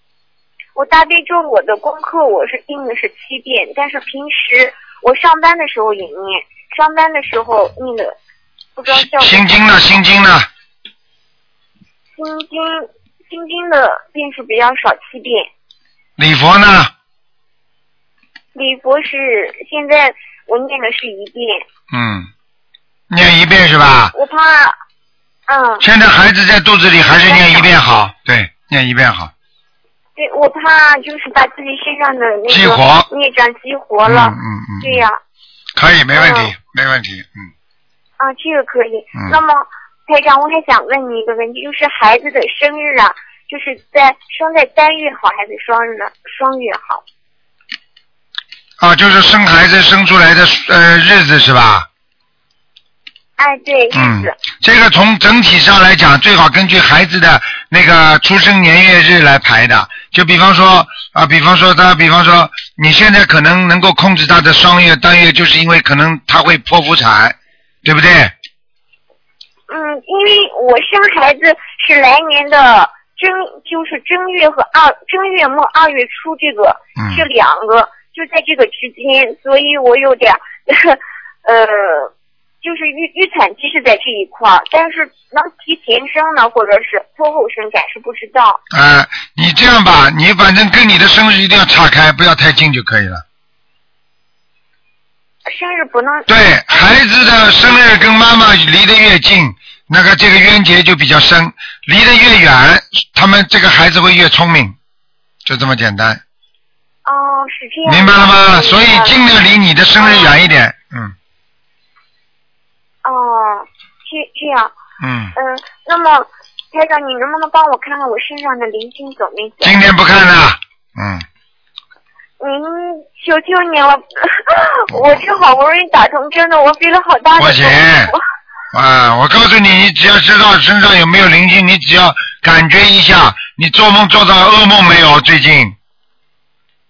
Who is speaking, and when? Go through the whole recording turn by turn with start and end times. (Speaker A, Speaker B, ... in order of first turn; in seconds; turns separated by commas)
Speaker A: 0.7-8.2, Speaker A: 8.8-9.4, Speaker B: 8.9-10.5, Speaker A: 12.2-15.5, Speaker B: 16.2-16.9, Speaker A: 18.5-21.6, Speaker B: 21.9-22.3, Speaker B: 23.1-24.1, Speaker A: 24.1-24.8, Speaker A: 25.5-25.8, Speaker B: 25.8-29.3, Speaker A: 27.2-27.7, Speaker A: 30.1-35.2, Speaker B: 32.5-33.1, Speaker B: 34.0-35.1, Speaker B: 35.7-37.5, Speaker A: 36.1-36.5, Speaker A: 38.2-47.0, Speaker B: 48.8-51.9, Speaker A: 53.4-54.4, Speaker B: 53.9-68.3, Speaker A: 69.7-88.6, Speaker B: 77.0-77.2, Speaker B: 88.7-93.2, Speaker A: 95.5-96.9, Speaker B: 96.3-104.7, Speaker B: 105.4-106.2, Speaker A: 107.0-109.2, Speaker B: 107.8-111.1, Speaker A: 110.0-110.4, Speaker A: 113.0-114.7, Speaker B: 115.0-115.3, Speaker A: 115.3-119.8, Speaker B: 119.6-121.2, Speaker A: 122.4-128.2, Speaker B: 124.9-125.2, Speaker B: 127.4-128.1, Speaker B: 128.7-135.8